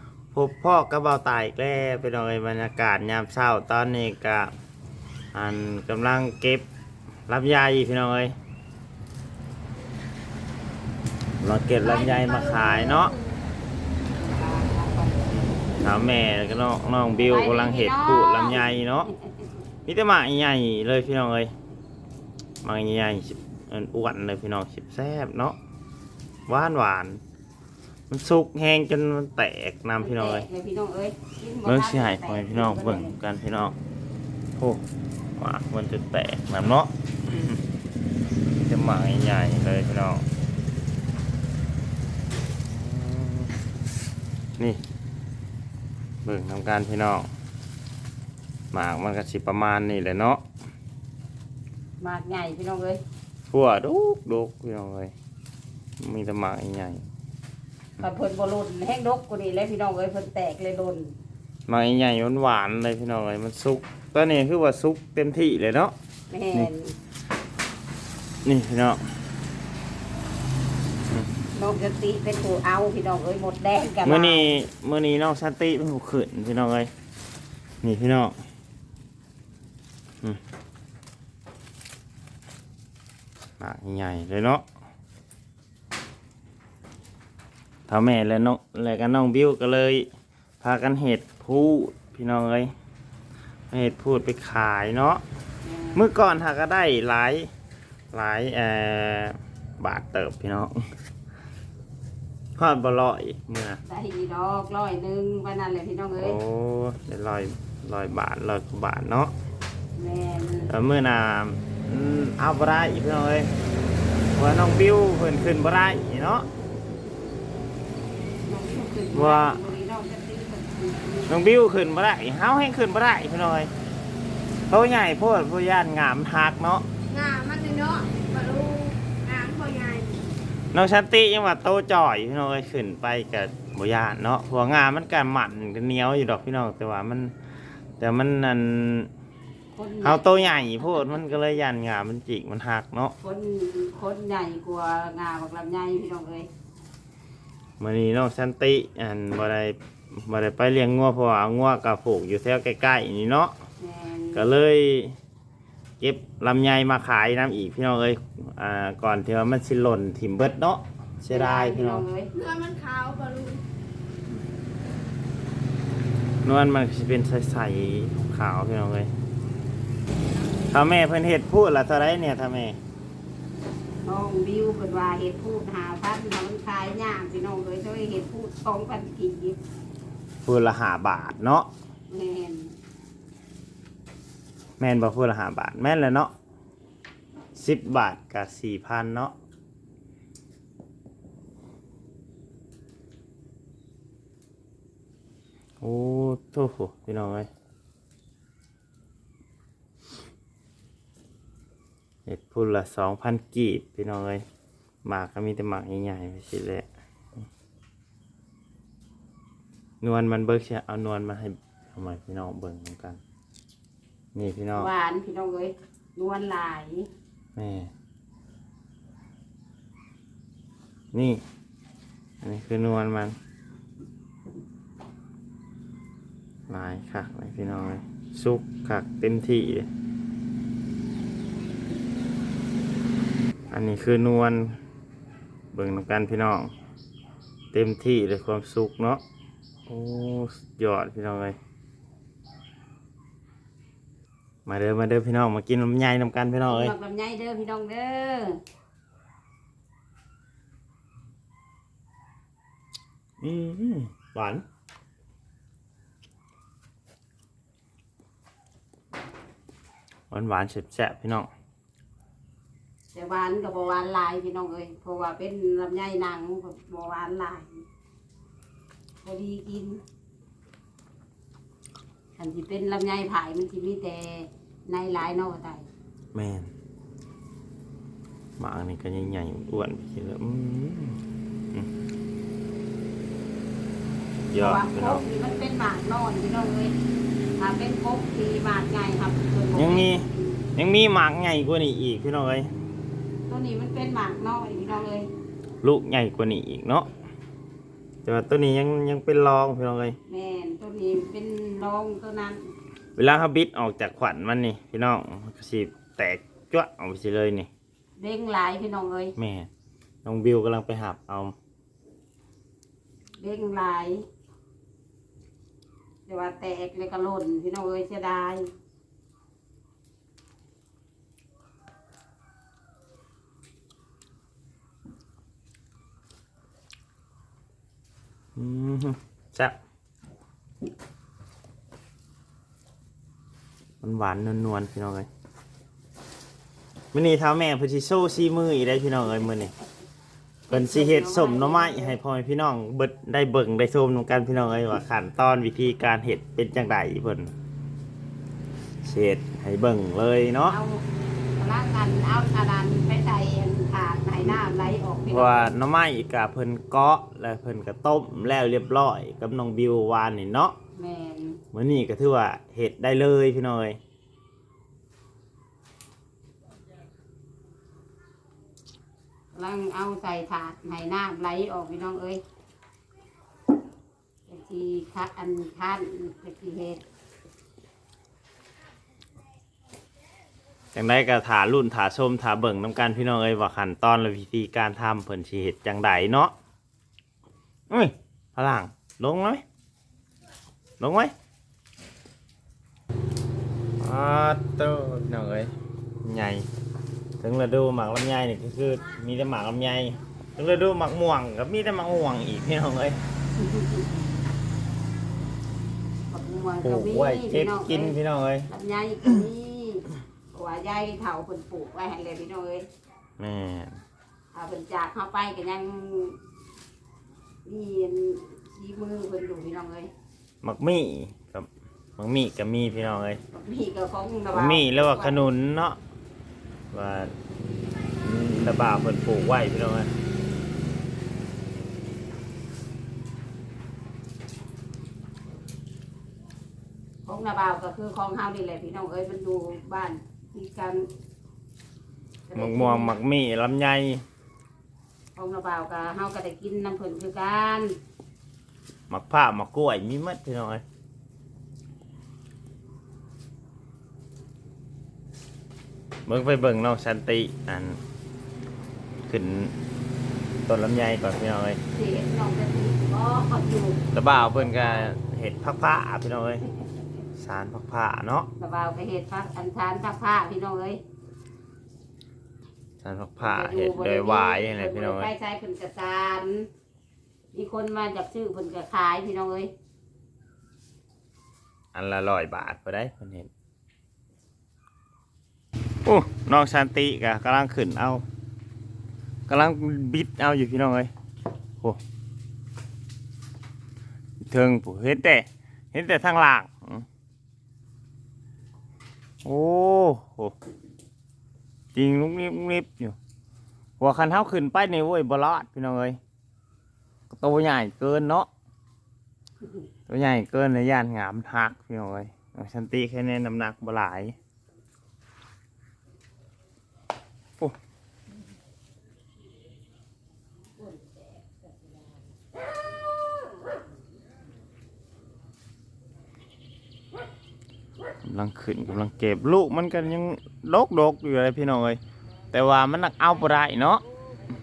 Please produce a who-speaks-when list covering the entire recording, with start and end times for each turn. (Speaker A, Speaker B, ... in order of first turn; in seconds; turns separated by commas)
Speaker A: 0.3-4.5, Speaker A: 5.3-6.7, Speaker A: 7.3-8.3, Speaker A: 11.4-13.2, Speaker B: 11.8-13.3, Speaker C: 14.2-15.4, Speaker A: 15.7-19.1, Speaker C: 17.2-19.5, Speaker A: 19.9-21.5, Speaker A: 22.6-25.6, Speaker A: 26.5-27.2, Speaker A: 28.1-30.5, Speaker C: 30.0-33.1, Speaker A: 31.6-33.8, Speaker A: 34.6-34.8, Speaker A: 35.4-37.6, Speaker A: 38.6-40.2, Speaker A: 42.7-43.5, Speaker A: 46.2-47.3, Speaker A: 48.7-50.4, Speaker C: 52.0-53.0, Speaker A: 53.5-55.1, Speaker A: 56.0-57.0, Speaker C: 58.0-61.2, Speaker A: 61.7-65.9, Speaker C: 66.3-67.0, Speaker A: 68.5-69.0, Speaker C: 71.5-74.6, Speaker A: 74.0-76.9, Speaker A: 77.8-78.4, Speaker A: 83.6-84.7, Speaker A: 87.9-90.1, Speaker A: 90.6-92.7, Speaker A: 93.7-95.2, Speaker C: 95.6-96.1, Speaker A: 96.0-97.5, Speaker A: 98.1-100.8, Speaker A: 102.6-103.8, Speaker C: 103.9-106.4, Speaker A: 106.2-109.3, Speaker C: 110.0-110.7, Speaker A: 110.7-113.5, Speaker A: 114.3-116.5, Speaker C: 118.5-121.4, Speaker A: 119.1-119.6, Speaker A: 121.3-123.7, Speaker A: 124.7-126.9, Speaker B: 127.1-130.2, Speaker A: 130.7-137.3, Speaker A: 138.0-139.1, Speaker C: 139.7-141.2, Speaker A: 140.0-143.2, Speaker C: 143.2-146.5, Speaker A: 147.8-153.5, Speaker C: 153.8-154.5, Speaker A: 154.3-155.2, Speaker A: 156.0-162.1, Speaker C: 161.3-162.3, Speaker B: 162.3-163.6, Speaker A: 166.4-169.1, Speaker A: 170.7-172.8, Speaker C: 174.0-179.6, Speaker A: 180.4-181.7, Speaker C: 182.1-182.7, Speaker A: 184.8-186.3, Speaker A: 187.6-189.3, Speaker A: 195.8-197.5, Speaker A: 202.3-204.4, Speaker A: 205.1-206.9, Speaker A: 210.0-213.2, Speaker A: 214.3-214.9, Speaker C: 214.8-217.1, Speaker A: 217.6-217.9, Speaker A: 221.1-221.4, Speaker A: 222.4-223.4, Speaker A: 226.7-229.9, Speaker A: 233.7-234.8, Speaker A: 235.7-236.7, Speaker A: 237.7-239.2, Speaker A: 239.9-241.6, Speaker A: 244.7-246.9, Speaker C: 246.7-248.6, Speaker A: 253.4-254.6, Speaker A: 260.3-261.5, Speaker C: 263.1-267.9, Speaker C: 269.2-270.0, Speaker C: 272.4-275.9, Speaker A: 276.3-276.7, Speaker A: 278.6-281.2, Speaker A: 284.5-285.2, Speaker C: 284.5-286.9, Speaker C: 287.6-290.3, Speaker A: 289.8-292.7, Speaker C: 293.5-295.3, Speaker A: 295.8-297.1, Speaker A: 298.2-300.2, Speaker C: 300.3-302.7, Speaker A: 303.2-307.7, Speaker C: 308.2-309.4, Speaker A: 309.4-309.7, Speaker A: 310.2-311.6, Speaker C: 313.4-314.2, Speaker C: 316.3-318.7, Speaker A: 328.6-329.8, Speaker A: 334.0-335.3, Speaker A: 337.1-339.7, Speaker C: 340.7-342.2, Speaker A: 340.7-347.5, Speaker A: 349.0-350.8, Speaker C: 350.6-351.0, Speaker C: 351.6-355.7, Speaker A: 355.3-360.8, Speaker C: 360.9-361.6, Speaker A: 361.7-364.0, Speaker C: 369.5-372.4, Speaker C: 374.5-377.0, Speaker A: 380.9-386.5, Speaker A: 387.9-389.6, Speaker A: 391.0-391.3, Speaker A: 394.0-396.7, Speaker A: 397.4-403.2, Speaker C: 403.6-404.1, Speaker C: 406.3-408.2, Speaker A: 406.8-408.7, Speaker C: 408.7-412.9, Speaker A: 413.4-414.0, Speaker C: 414.5-416.4, Speaker C: 417.6-420.1, Speaker A: 420.6-423.4, Speaker C: 423.5-425.5, Speaker A: 424.5-426.0, Speaker A: 426.9-427.3, Speaker A: 428.2-430.1, Speaker C: 437.2-441.1, Speaker C: 442.5-443.1, Speaker A: 442.6-444.2, Speaker C: 445.4-448.0, Speaker A: 449.1-450.8, Speaker A: 456.3-458.0, Speaker A: 459.3-459.7, Speaker A: 460.7-461.8, Speaker C: 461.9-465.1, Speaker A: 464.1-466.6, Speaker A: 467.4-468.5, Speaker C: 468.6-471.0, Speaker A: 473.0-475.3, Speaker C: 473.4-476.7, Speaker C: 477.5-479.7, Speaker A: 481.9-483.5, Speaker A: 486.1-488.2, Speaker A: 489.5-491.1, Speaker A: 494.4-497.1, Speaker A: 499.4-500.5, Speaker A: 501.9-503.2, Speaker A: 504.0-506.2, Speaker A: 507.3-508.5, Speaker A: 510.1-514.4, Speaker C: 520.9-521.3, Speaker A: 528.2-532.0, Speaker A: 532.5-534.0